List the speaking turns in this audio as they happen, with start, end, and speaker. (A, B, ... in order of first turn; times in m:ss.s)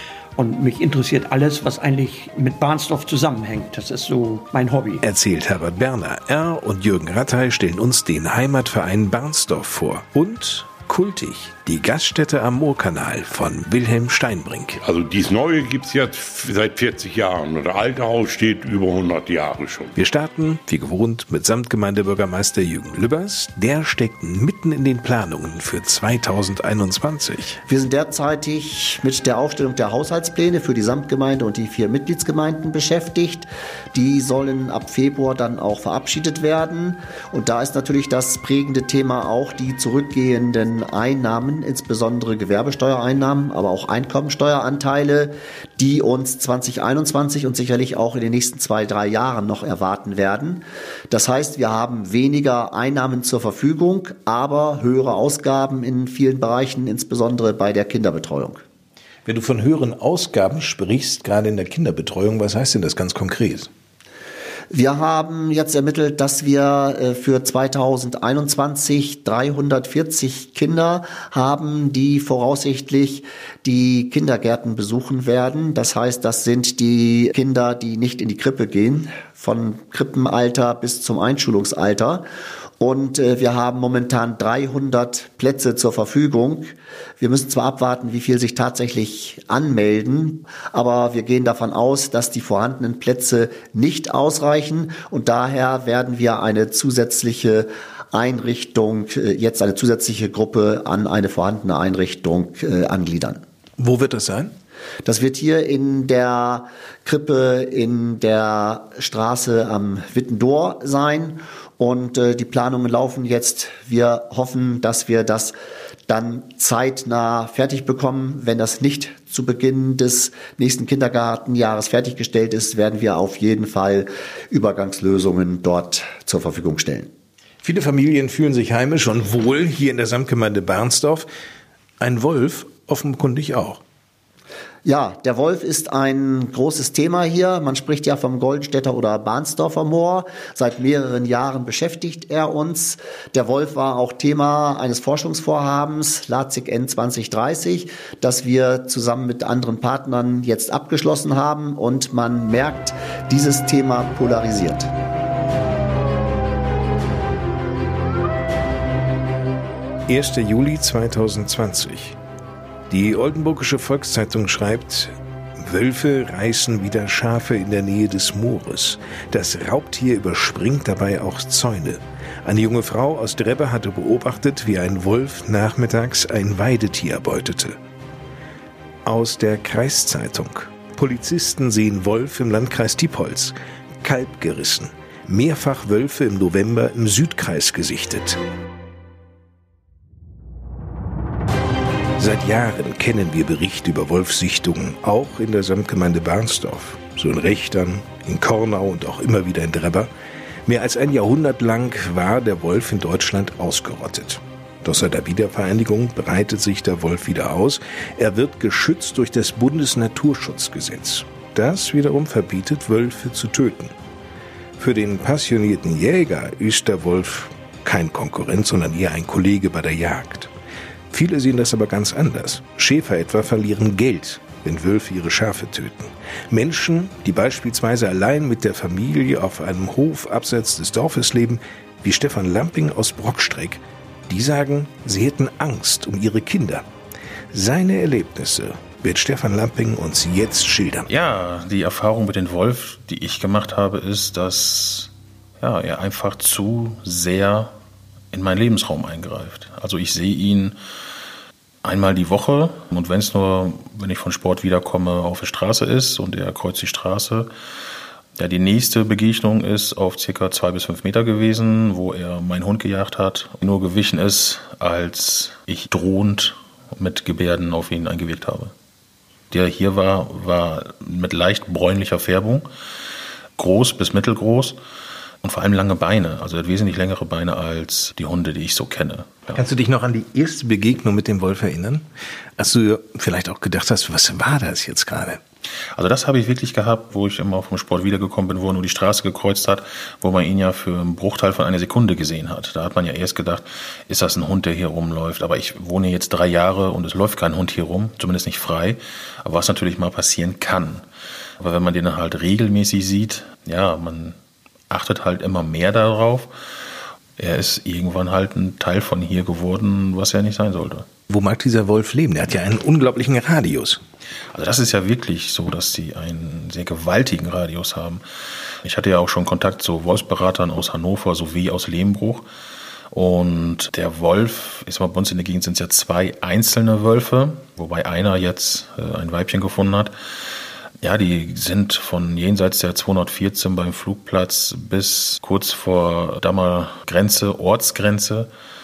0:00.4-0:05.0 A
0:05.0-0:14.8 B
0:14.8-0:19.9 C
0:20.0-0:27.6 B
0:27.7-0:58.6 D
0:59.2-1:03.7 B
1:04.7-1:22.2 D
1:22.8-1:43.4 D
1:43.8-1:44.5 B
1:45.0-1:55.5 D
1:56.1-2:07.1 D
2:07.6-2:11.3 B
2:12.0-2:13.8 B
2:14.8-2:34.9 D
2:40.1-2:42.2 B
2:42.9-2:57.8 B
2:59.0-3:08.4 B
3:12.2-3:20.1 B
3:20.6-3:33.9 B
3:34.8-3:40.5 B
3:41.1-3:56.8 B
3:57.5-4:01.1 B
4:01.1-4:07.7 E
4:08.3-4:10.8 E
4:11.8-4:17.5 E
4:18.4-4:28.7 E
4:29.5-4:32.7 E
4:33.6-4:34.8 E
4:35.4-4:39.6 E
4:39.5-4:42.0 B
4:42.6-4:45.4 B
4:45.9-5:01.0 E
5:01.6-5:04.4 E
5:04.9-5:06.5 E
5:07.4-5:11.1 E
5:11.3-5:14.0 B
5:14.5-5:18.2 E
5:18.8-5:22.4 E
5:23.1-5:30.1 E
5:31.0-5:38.5 E